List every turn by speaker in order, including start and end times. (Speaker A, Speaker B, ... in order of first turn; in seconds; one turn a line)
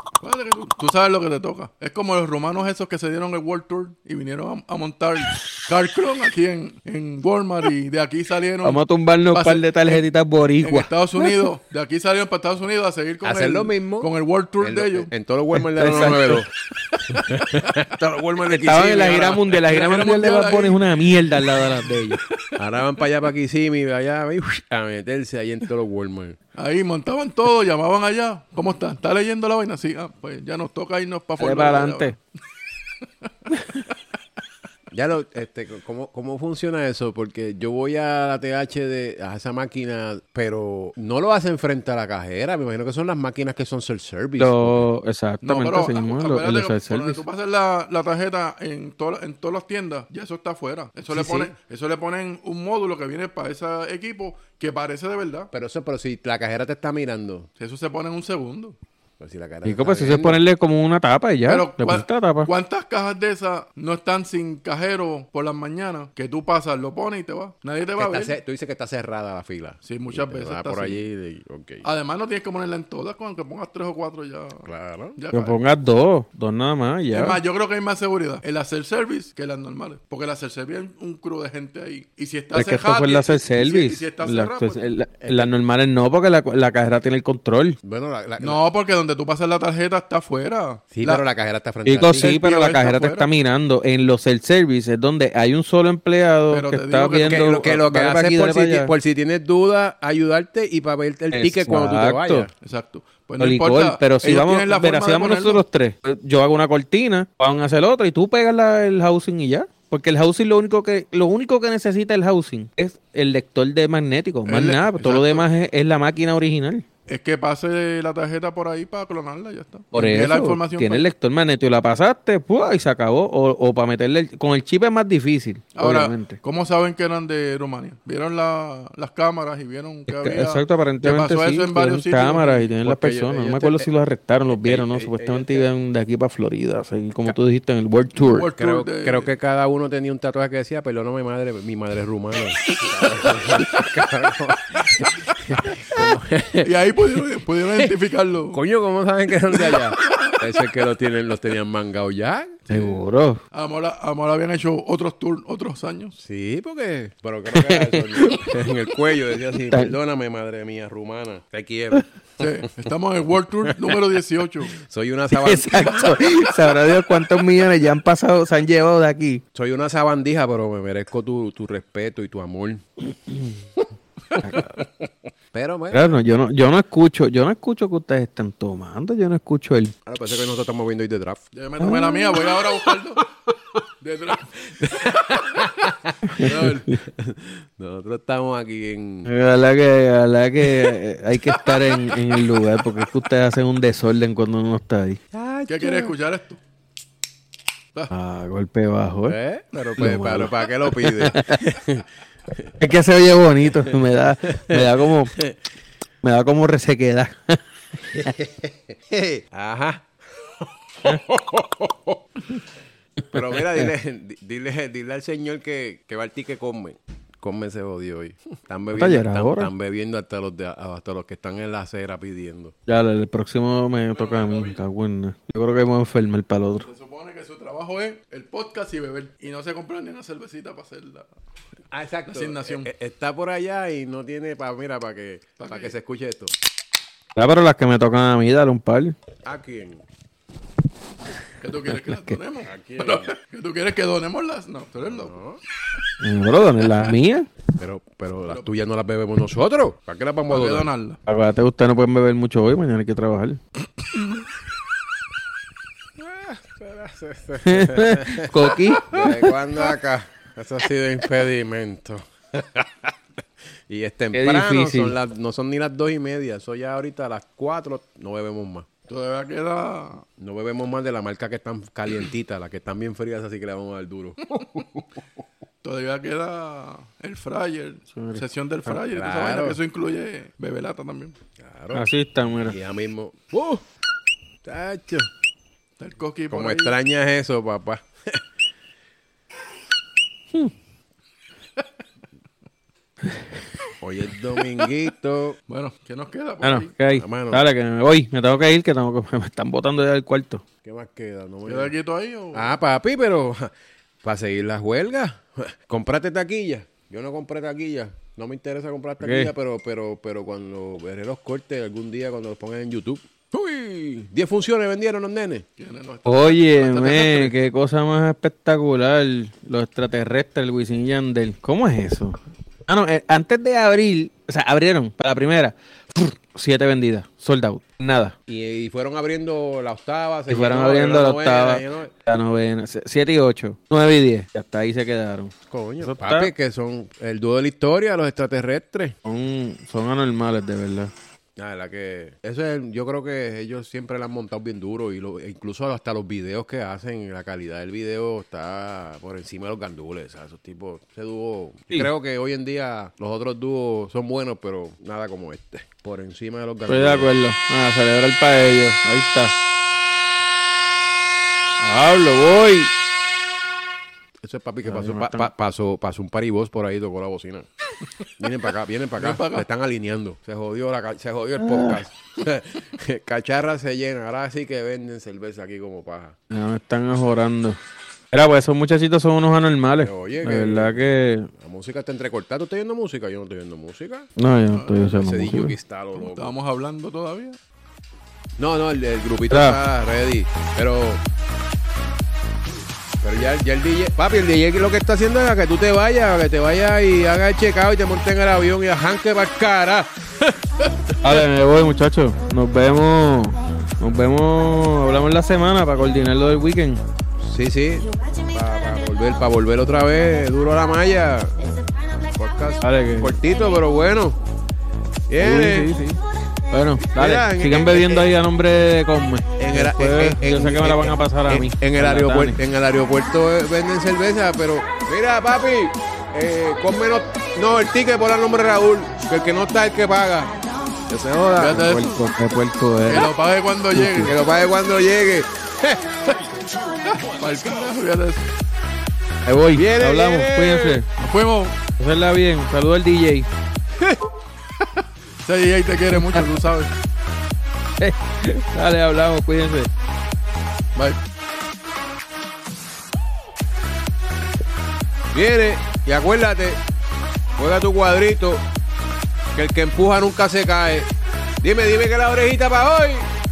Speaker A: 0.2-10.1
Speaker B: 8.6-11.4
Speaker A: 10.6-15.1
Speaker C: 13.2-16.5
Speaker B: 15.6-16.4
Speaker A: 17.1-17.8
Speaker C: 17.1-19.6
Speaker B: 18.5-22.2
Speaker A: 19.6-23.0
Speaker C: 22.6-26.4
Speaker A: 26.6-32.2
Speaker B: 31.4-32.1
Speaker C: 34.9-44.9
Speaker B: 44.4-47.2
Speaker A: 45.4-55.5
Speaker B: 51.1-51.5
Speaker C: 51.2-51.5
Speaker C: 55.5-57.5
Speaker A: 57.6-58.8
Speaker C: 59.2-60.4
Speaker B: 59.6-62.5
Speaker A: 61.5-68.4
Speaker C: 68.0-71.9
Speaker A: 69.8-71.0
Speaker A: 71.8-75.6
Speaker C: 74.7-75.2
Speaker B: 75.3-77.4
Speaker A: 77.1-84.9
Speaker B: 82.5-87.8
Speaker C: 85.2-85.5
Speaker C: 87.8-88.6
Speaker A: 88.4-91.2
Speaker C: 90.9-92.4
Speaker B: 91.8-98.9
Speaker A: 92.0-93.3
Speaker A: 96.5-97.5
Speaker C: 97.2-102.5
Speaker B: 101.3-102.5
Speaker A: 102.6-105.6
Speaker B: 103.4-116.8
Speaker A: 114.5-115.5
Speaker A: 117.1-121.1
Speaker B: 119.9-126.4
Speaker A: 125.8-132.9
Speaker B: 130.1-138.5
Speaker C: 132.8-133.8
Speaker C: 134.5-135.7
Speaker A: 138.2-139.3
Speaker C: 138.6-147.9
Speaker A: 143.3-143.8
Speaker A: 145.1-145.3
Speaker A: 146.6-148.6
Speaker C: 148.5-152.7
Speaker A: 149.7-150.4
Speaker A: 152.7-153.0
Speaker B: 152.7-153.4
Speaker A: 153.5-156.2
Speaker C: 156.2-162.4
Speaker B: 157.5-158.7
Speaker B: 159.7-159.9
Speaker A: 162.4-164.8
Speaker C: 164.7-167.5
Speaker B: 165.3-169.4
Speaker C: 169.5-172.8
Speaker B: 174.4-174.8
Speaker C: 174.5-174.9
Speaker C: 175.5-176.1
Speaker B: 175.9-179.9
Speaker C: 180.1-181.4
Speaker A: 181.5-183.3
Speaker B: 181.8-182.5
Speaker A: 184.0-185.7
Speaker C: 184.6-189.3
Speaker B: 186.3-186.7
Speaker A: 186.3-186.9
Speaker B: 189.2-195.2
Speaker C: 195.3-196.2
Speaker A: 195.7-196.6
Speaker B: 198.1-199.4
Speaker C: 199.3-202.7
Speaker B: 200.0-201.6
Speaker B: 202.8-205.3
Speaker C: 203.8-205.6
Speaker B: 206.2-208.3
Speaker C: 208.1-212.6
Speaker B: 213.2-213.9
Speaker C: 213.3-222.7
Speaker B: 218.9-219.7
Speaker B: 222.9-226.9
Speaker A: 224.1-224.8
Speaker A: 226.9-231.3
Speaker C: 231.9-236.5
Speaker A: 232.3-232.9
Speaker A: 235.6-235.9
Speaker B: 237.4-239.2
Speaker C: 239.4-240.0
Speaker A: 241.6-245.3
Speaker B: 241.9-242.4
Speaker C: 242.6-243.3
Speaker C: 245.0-245.6
Speaker B: 246.2-247.5
Speaker C: 247.8-250.9
Speaker A: 250.5-251.2
Speaker B: 251.3-253.6
Speaker C: 256.2-263.1
Speaker B: 257.6-259.5
Speaker C: 263.9-268.9
Speaker B: 264.3-265.1
Speaker A: 269.1-270.3
Speaker C: 270.4-275.0
Speaker A: 274.5-274.8
Speaker A: 275.8-281.4
Speaker B: 278.1-279.0
Speaker C: 279.1-279.8
Speaker C: 281.6-282.1
Speaker B: 281.9-282.8
Speaker C: 282.6-283.8
Speaker C: 284.6-285.3
Speaker A: 286.0-286.9
Speaker C: 286.5-288.4
Speaker C: 294.0-295.6
Speaker A: 295.7-296.9
Speaker B: 296.6-300.6
Speaker C: 297.1-297.6
Speaker C: 300.8-301.9
Speaker A: 301.7-302.7
Speaker C: 302.5-303.7
Speaker C: 304.2-315.7
Speaker B: 309.2-309.5
Speaker A: 315.8-317.6
Speaker B: 316.3-328.4
Speaker C: 328.5-332.1
Speaker B: 330.5-336.5
Speaker C: 335.7-339.2
Speaker B: 339.2-341.1
Speaker C: 341.6-357.3
Speaker B: 356.9-359.6
Speaker B: 361.8-362.9
Speaker C: 364.4-367.7
Speaker B: 364.9-365.5
Speaker C: 368.4-376.4
Speaker A: 369.2-369.7
Speaker B: 371.6-372.0
Speaker B: 376.5-377.8
Speaker B: 378.3-381.5
Speaker C: 380.0-384.3
Speaker B: 384.4-385.8
Speaker A: 384.7-385.1
Speaker C: 385.1-386.5
Speaker A: 386.2-387.6
Speaker C: 388.6-391.2
Speaker B: 389.5-389.8
Speaker C: 393.2-401.3
Speaker B: 401.2-407.0
Speaker C: 407.4-414.4
Speaker B: 412.8-413.4
Speaker C: 415.3-416.0
Speaker B: 415.4-416.2
Speaker B: 416.7-422.6
Speaker C: 417.2-418.3
Speaker C: 419.6-430.6
Speaker C: 431.1-432.0
Speaker A: 431.6-432.2
Speaker B: 431.6-433.3
Speaker A: 433.1-434.3
Speaker B: 433.9-434.3
Speaker C: 434.2-436.5
Speaker A: 437.1-438.5
Speaker B: 439.4-441.1
Speaker C: 439.7-441.0
Speaker A: 441.2-441.8
Speaker B: 442.0-443.5
Speaker A: 445.4-446.9
Speaker B: 446.1-446.5
Speaker B: 448.0-449.9
Speaker C: 455.3-456.8
Speaker C: 457.6-458.6
Speaker C: 459.5-461.1
Speaker C: 461.6-463.3